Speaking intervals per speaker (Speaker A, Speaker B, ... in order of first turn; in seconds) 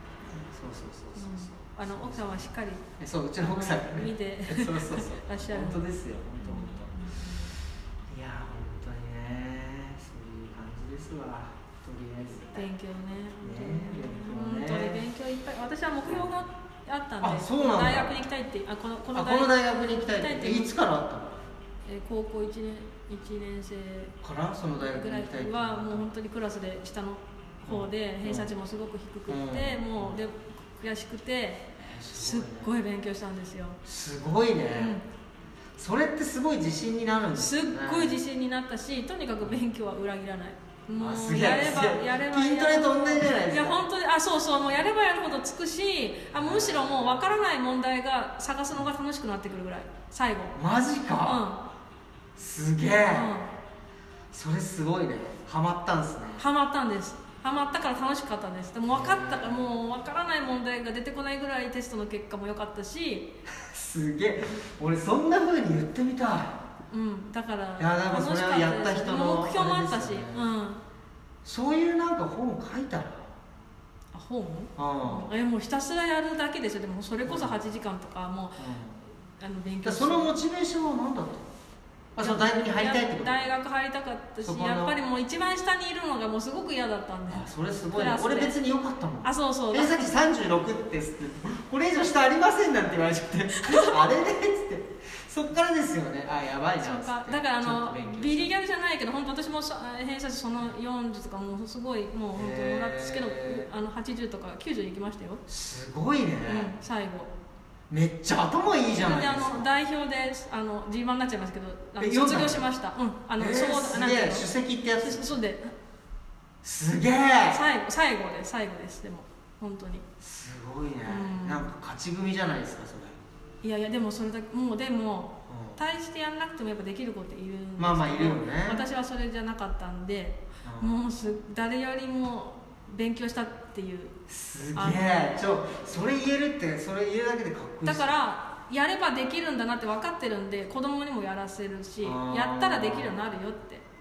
Speaker A: 0.3-7.0, 8.1-12.7, 13.4-15.1, 16.0-16.3, 17.2-18.1, 19.1-21.5, 24.2-26.1, 27.7-28.5, 29.3-30.2, 31.8-32.7, 33.9-35.0, 35.8-38.2, 41.0-43.8, 46.3-47.3, 50.5-51.4, 52.4-53.3, 54.3-56.5, 58.9-59.7, 63.5-66.6, 67.8-70.5, 71.4-73.3, 74.8-75.3, 77.2-77.5, 78.6-79.0, 79.8-81.5, 82.2-83.5, 84.4-85.0, 87.3-98.5, 102.3-103.7, 105.5-106.8, 107.9-109.7, 112.0-112.7, 113.4-115.3, 116.6-117.6, 120.2-123.2, 125.5-125.8, 127.8-128.8, 130.6-131.0, 134.3-138.1, 142.0-143.2
Speaker B: 1.2-2.9, 3.4-7.6, 12.5-20.7, 21.9-24.1, 24.8-33.8, 34.7-35.0, 37.4-50.5, 51.2-51.7, 53.1-53.5, 56.4-63.3, 66.9-70.8, 74.1-78.8, 79.4-80.3, 82.2-88.6, 89.2-90.1, 93.5-94.0, 96.8-105.4, 106.5-107.3, 108.9-114.5, 115.0-115.7, 117.5-120.0, 121.1-121.7, 123.6-134.2, 134.7-135.6, 137.8-143.8